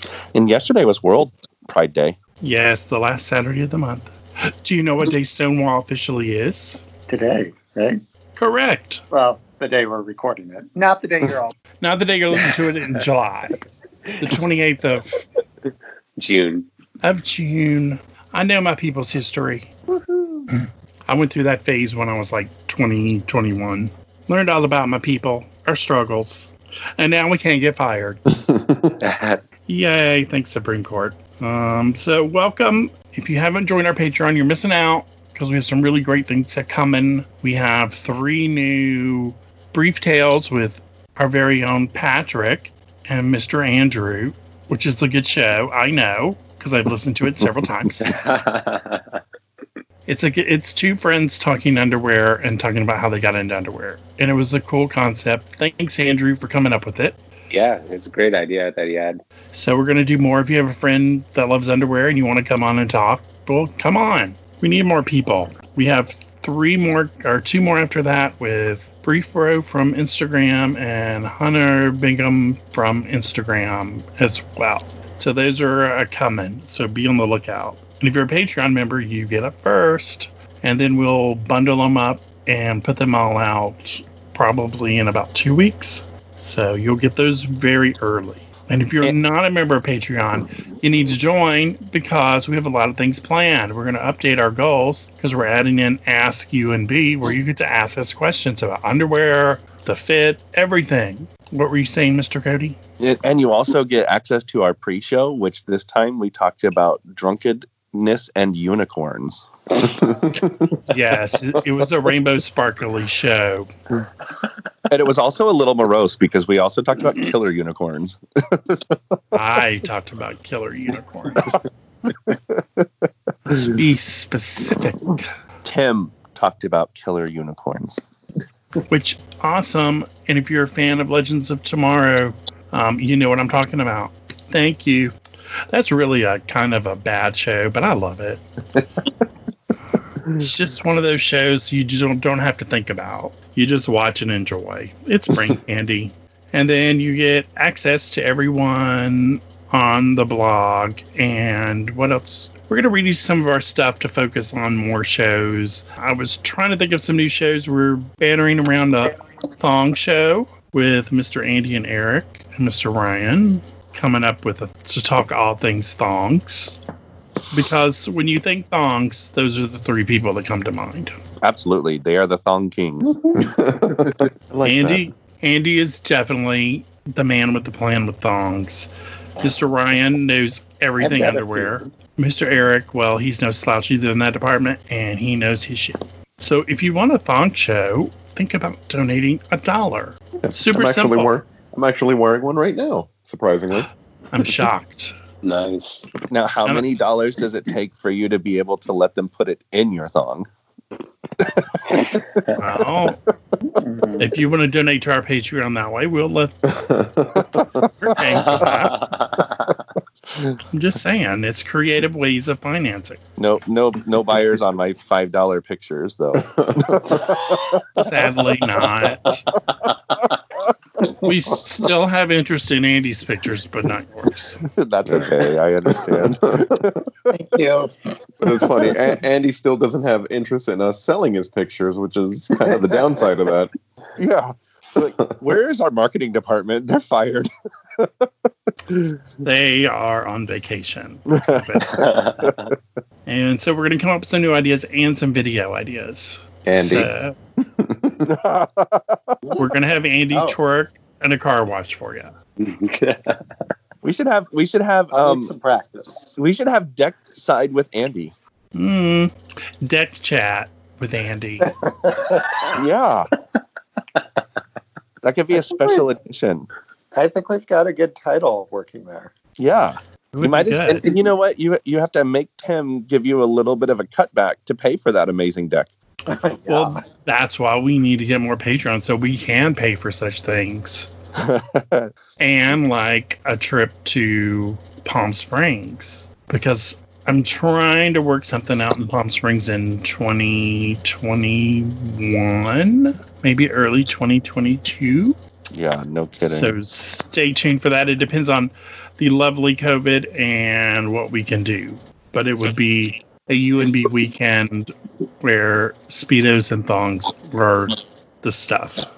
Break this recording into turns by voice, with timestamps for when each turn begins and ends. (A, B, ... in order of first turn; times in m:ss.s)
0:00.3-0:02.2 A
0:02.4-0:06.8 B
0:07.1-0:08.0 C
0:08.4-0:09.0 B
0:09.1-0:11.6 C
0:11.8-0:13.6 B
0:14.2-0:15.2 B
0:16.2-0:16.7 D
0:17.0-0:19.7 B
0:20.5-0:28.2 B
0:28.3-0:29.0 E
0:29.0-0:29.4 D
0:29.7-0:48.1 B
0:47.4-0:48.0 A
0:48.0-0:49.2 D
0:50.1-0:57.2 B
0:57.5-0:59.2 D
0:59.5-1:42.8 B
1:43.0-1:50.0 A
1:50.9-1:53.7 B
1:54.9-1:59.0 A
1:59.3-2:01.6 B
2:03.5-2:05.2 B
2:05.6-2:08.0 A
2:08.9-2:15.2 B
2:15.7-2:18.4 B
2:20.2-2:46.8 B
2:47.5-2:51.2 B
2:51.4-2:53.4 A
2:53.4-2:55.1 E
2:54.6-3:11.4 B
3:01.0-3:01.8 C
3:10.4-3:13.9 E
3:14.3-3:15.2 B
3:15.4-3:16.1 D
3:16.3-3:20.5 A
3:16.6-3:17.0 B
3:21.4-3:21.8 A
3:21.9-3:22.5 D
3:22.6-3:23.2 B
3:23.7-3:24.3 C
3:24.2-3:27.0 B
3:26.9-3:27.9 E
3:28.0-3:29.1 B
3:28.5-3:29.8 D
3:30.7-3:33.2 B
3:33.4-3:37.9 A
3:36.4-3:37.2 E
3:38.0-3:39.4 B
3:41.0-3:44.6 B
3:44.7-3:47.3 A
3:45.1-3:46.9 E
3:47.3-3:48.0 C
3:48.4-3:53.7 E
3:54.2-3:58.2 A
3:58.9-3:59.2 A
3:59.4-4:02.1 B
4:01.3-4:02.5 A
4:01.9-4:02.7 D
4:03.3-4:07.3 B
4:06.6-4:07.1 E
4:07.7-4:08.3 E
4:08.2-4:09.4 A
4:09.6-4:12.3 B
4:10.3-4:10.6 C
4:12.6-4:13.5 D
4:14.0-4:15.5 A
4:15.1-4:16.3 C
4:16.4-4:18.3 A
4:18.8-4:21.7 B
4:21.6-4:22.8 C
4:22.7-4:23.3 A
4:25.2-4:26.7 A
4:25.7-4:26.0 C
4:27.1-4:29.3 C
4:29.6-4:35.9 A
4:30.3-4:31.1 B
4:36.3-4:37.0 C
4:36.7-4:41.1 B
4:41.4-4:42.1 A
4:42.4-4:55.4 B
4:55.7-4:56.8 A
4:56.4-5:09.1 B